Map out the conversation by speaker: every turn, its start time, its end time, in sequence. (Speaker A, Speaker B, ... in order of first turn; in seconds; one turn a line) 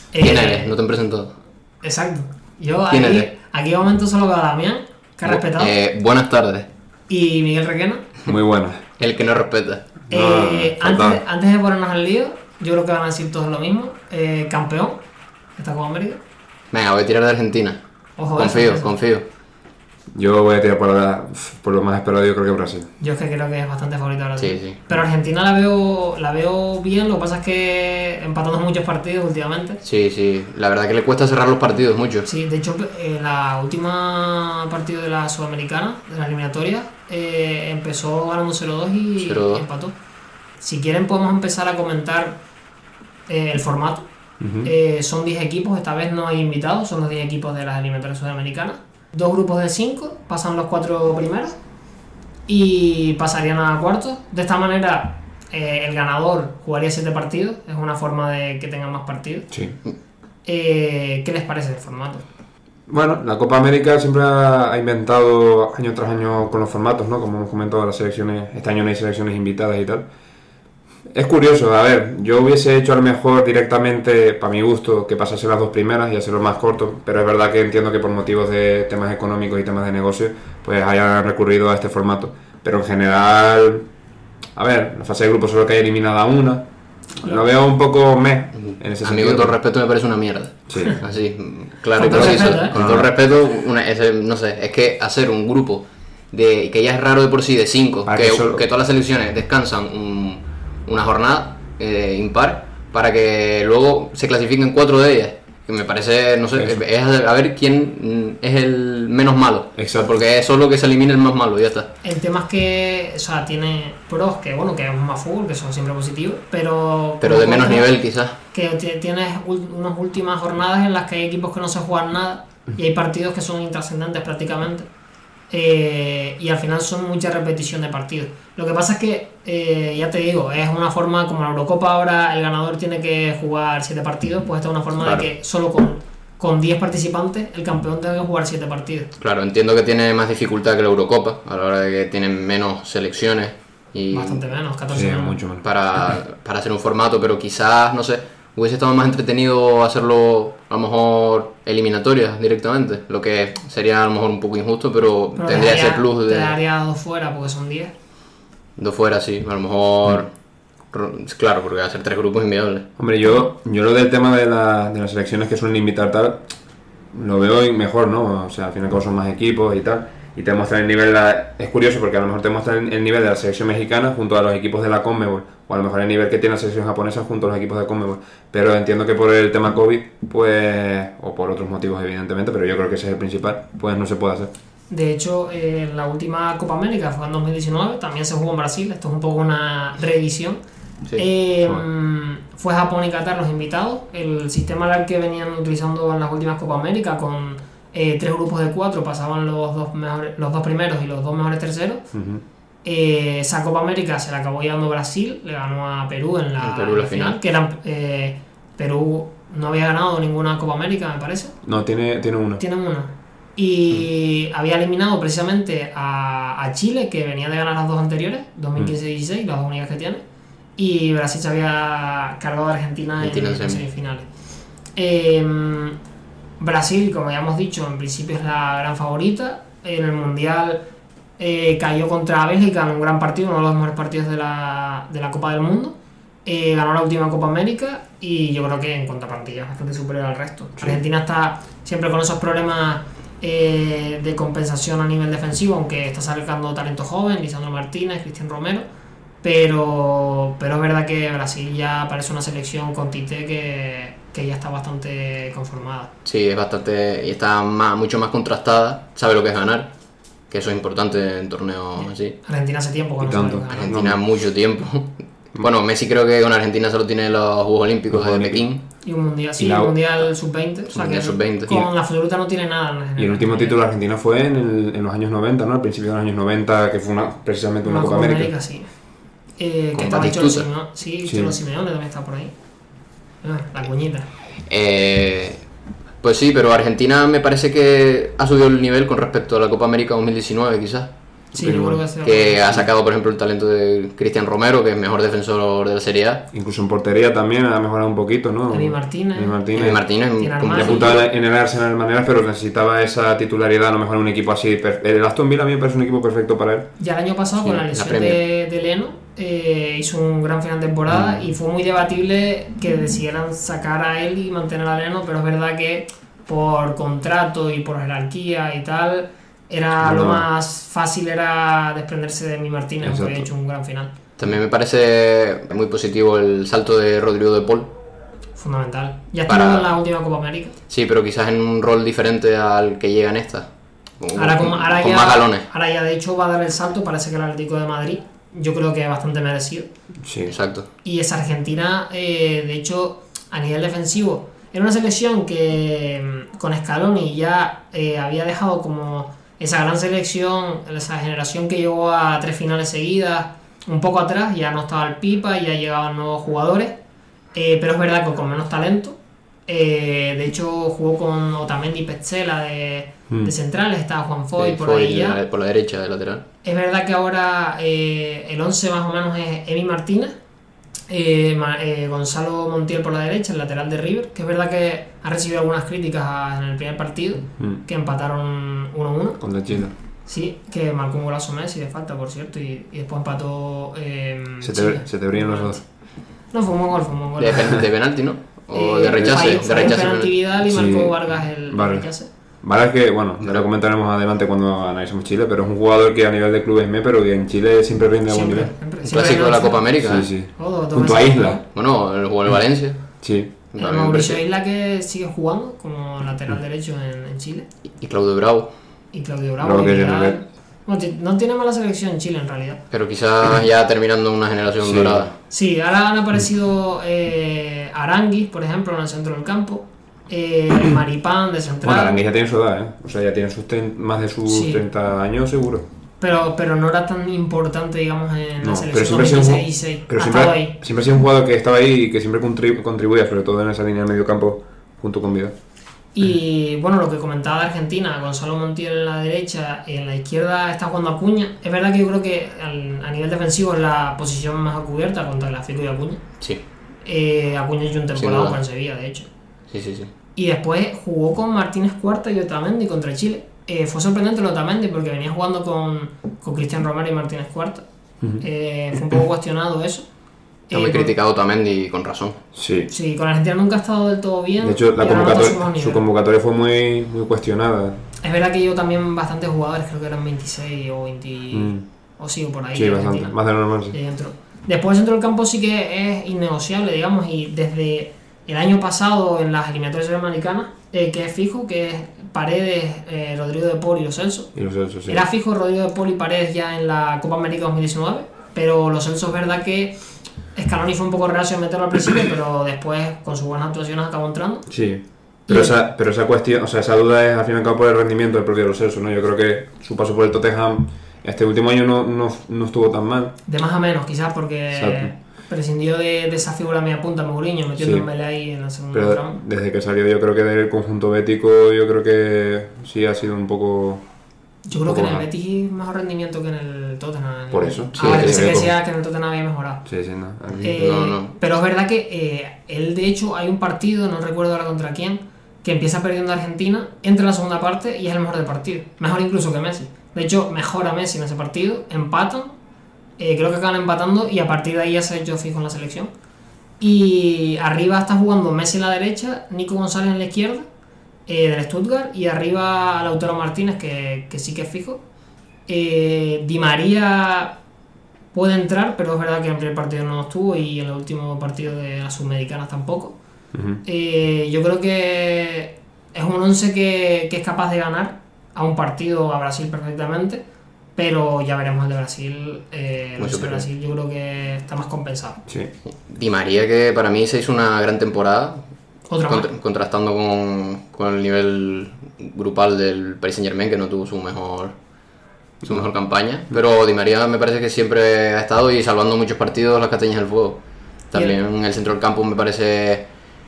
Speaker A: 0.1-0.8
Speaker B: 0.2-1.3
Speaker A: 1.8-5.7
Speaker B: 2.9-3.3
Speaker B: 5.2-6.7
Speaker A: 7.1-8.1
Speaker C: 8.3-8.8
Speaker B: 9.0-9.8
Speaker C: 10.1-11.2
Speaker A: 10.1-15.0
Speaker A: 15.6-16.2
Speaker B: 16.7-17.8
Speaker A: 18.2-19.0
Speaker B: 18.4-19.2
Speaker C: 20.1-22.9
Speaker A: 23.0-29.8
Speaker B: 24.4-24.8
Speaker B: 29.8-32.3
Speaker A: 32.3-40.0
Speaker B: 39.2-39.6
Speaker A: 40.6-42.4
Speaker A: 43.3-44.0
Speaker C: 44.4-44.7
Speaker A: 44.6-51.6
Speaker A: 52.5-59.5
Speaker C: 59.5-59.8
Speaker A: 60.5-62.2
Speaker C: 62.9-70.1
Speaker C: 71.1-83.9
Speaker C: 84.5-86.7
Speaker C: 87.2-89.6
Speaker B: 88.6-111.9
Speaker C: 90.7-91.0
Speaker A: 92.0-92.8
Speaker C: 92.2-93.1
Speaker C: 98.1-98.7
Speaker C: 106.5-106.8
Speaker C: 109.8-110.2
Speaker A: 112.0-117.9
Speaker B: 117.2-118.4
Speaker A: 118.5-124.9
Speaker A: 125.5-139.1
Speaker B: 139.2-144.5
Speaker A: 144.1-145.4
Speaker C: 144.9-145.7
Speaker B: 145.6-156.6
Speaker A: 155.4-157.9
Speaker B: 158.8-160.3
Speaker B: 160.9-162.9
Speaker C: 163.0-166.4
Speaker C: 167.1-184.5
Speaker A: 184.9-190.6
Speaker A: 191.2-202.1
Speaker C: 202.1-202.4
Speaker A: 202.8-211.5
Speaker B: 206.6-207.4
Speaker C: 211.6-212.6
Speaker A: 212.6-220.2
Speaker A: 220.8-224.3
Speaker B: 223.2-223.9
Speaker A: 225.0-226.0
Speaker A: 226.6-230.8
Speaker A: 231.4-248.8
Speaker A: 249.4-256.1
Speaker B: 256.2-259.9
Speaker B: 260.5-262.4
Speaker A: 262.1-264.0
Speaker C: 263.2-264.2
Speaker B: 263.7-268.8
Speaker C: 268.1-268.6
Speaker A: 269.0-273.8
Speaker C: 269.6-270.0
Speaker B: 270.9-271.9
Speaker C: 273.2-278.5
Speaker A: 277.9-278.9
Speaker A: 279.6-282.5
Speaker B: 279.9-280.7
Speaker C: 281.2-281.6
Speaker A: 283.4-284.3
Speaker B: 284.7-285.6
Speaker B: 286.2-291.1
Speaker C: 291.5-292.0
Speaker A: 291.6-292.8
Speaker B: 292.2-296.4
Speaker C: 296.5-300.0
Speaker A: 298.7-299.6
Speaker B: 299.7-301.2
Speaker A: 300.4-301.2
Speaker C: 300.8-306.9
Speaker A: 307.0-324.1
Speaker B: 307.6-308.4
Speaker C: 311.1-311.4
Speaker C: 320.0-320.5
Speaker C: 323.0-323.5
Speaker B: 324.4-327.9
Speaker A: 328.6-330.8
Speaker B: 329.5-329.9
Speaker B: 330.9-333.7
Speaker B: 334.2-335.7
Speaker A: 334.4-339.9
Speaker C: 340.2-340.6
Speaker B: 340.5-340.9
Speaker A: 341.0-357.0
Speaker A: 357.5-365.4
Speaker B: 364.6-366.4
Speaker A: 366.6-370.3
Speaker A: 371.1-379.4
Speaker C: 379.4-379.9
Speaker A: 380.3-385.8
Speaker C: 384.6-385.8
Speaker A: 386.5-387.8
Speaker B: 387.4-390.3
Speaker A: 388.7-392.3
Speaker C: 389.2-389.5
Speaker C: 390.6-392.1
Speaker C: 392.6-398.7
Speaker A: 398.3-399.9
Speaker B: 399.0-400.3
Speaker C: 400.0-401.6
Speaker A: 400.5-401.6
Speaker B: 401.7-403.0
Speaker C: 403.2-403.6
Speaker B: 403.7-404.4
Speaker A: 403.8-407.7
Speaker B: 408.0-408.7
Speaker A: 409.1-412.8
Speaker C: 409.6-410.4
Speaker B: 412.9-415.3
Speaker C: 414.8-415.3
Speaker A: 415.5-422.2
Speaker C: 421.8-425.9
Speaker A: 424.5-424.8
Speaker A: 426.2-430.8
Speaker C: 428.6-435.5
Speaker A: 436.1-446.2
Speaker A: 447.1-449.3
Speaker B: 448.2-448.6
Speaker B: 449.7-450.1
Speaker A: 450.4-457.8
Speaker A: 458.4-460.1
Speaker A: 460.7-461.1
Speaker B: 460.7-462.4
Speaker C: 462.6-462.9
Speaker A: 462.9-466.1
Speaker C: 464.6-468.0
Speaker A: 468.2-473.4
Speaker C: 471.5-471.8
Speaker C: 472.7-474.0
Speaker A: 473.9-484.5
Speaker C: 484.6-485.3
Speaker A: 485.1-489.9
Speaker A: 490.5-494.7
Speaker C: 494.7-503.4
Speaker A: 495.5-495.8
Speaker A: 503.5-509.4
Speaker C: 504.7-505.1
Speaker C: 507.8-508.1
Speaker C: 508.9-514.0
Speaker A: 514.7-519.9
Speaker C: 514.8-515.3
Speaker C: 517.5-518.7
Speaker B: 518.0-518.7
Speaker C: 519.9-520.7
Speaker B: 520.5-521.3
Speaker A: 520.6-532.5
Speaker A: 533.2-536.1
Speaker A: 536.8-540.6
Speaker A: 541.3-545.0
Speaker A: 545.7-547.5
Speaker A: 548.3-553.1
Speaker C: 553.5-553.8
Speaker A: 553.8-560.4
Speaker A: 561.0-565.4
Speaker B: 563.2-563.7
Speaker B: 565.9-568.6
Speaker A: 569.1-569.5
Speaker B: 569.3-574.8
Speaker C: 575.6-575.9
Speaker B: 575.6-580.6
Speaker B: 581.1-583.1